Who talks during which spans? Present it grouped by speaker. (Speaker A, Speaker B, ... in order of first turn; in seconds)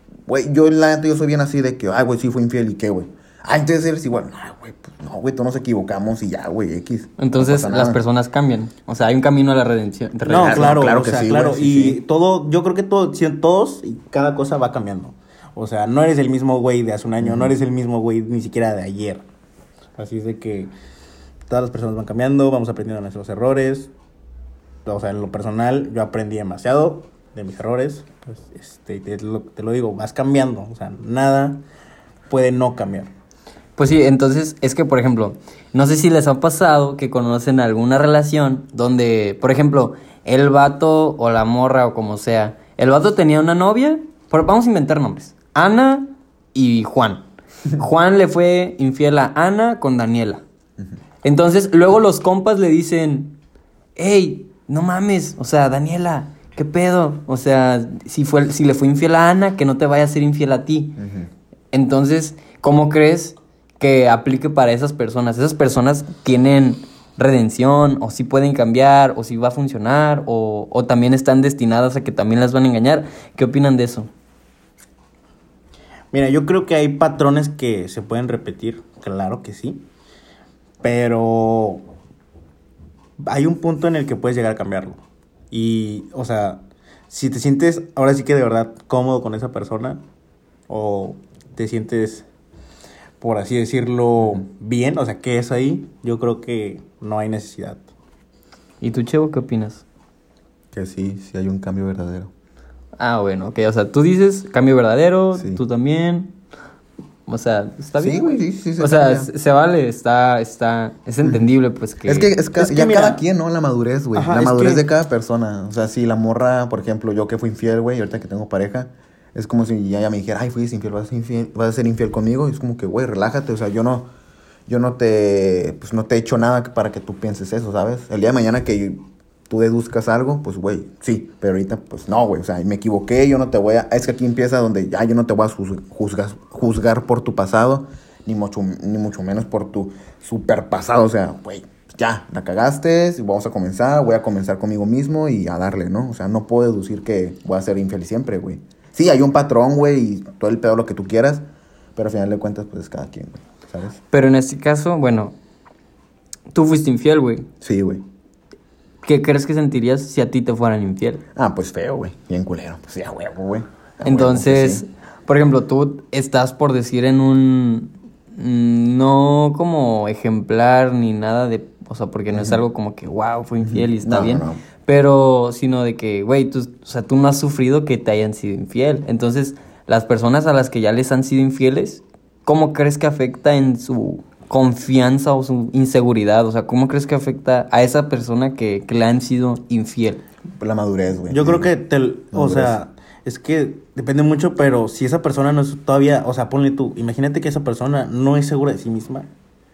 Speaker A: 0.3-8.0, 10.3-12.0, 17.2-17.6, 61.0-61.3, 100.7-102.3, 105.3-105.6, 108.0-109.3, 112.0-124.1, 124.7-151.4, 151.9-154.0, 157.6-158.0, 161.3-164.8, 172.3-172.6, 173.6-174.6, 190.6-191.7, 192.3-192.8
Speaker B: 7.2-10.7, 33.8-50.4, 51.2-53.4, 54.0-61.0, 61.7-74.1, 98.8-99.8, 103.0-106.3, 107.3-112.3, 154.1-155.3, 156.5-157.5, 159.0-161.2, 164.0-190.2
Speaker C: 10.3-19.2, 20.0-20.7, 21.5-23.9, 24.8-31.6, 32.3-33.1, 76.1-79.8, 80.8-81.9, 83.2-85.0, 85.5-90.0, 90.7-92.2, 93.2-97.8, 112.6-113.2, 114.1-114.9, 191.3-199.3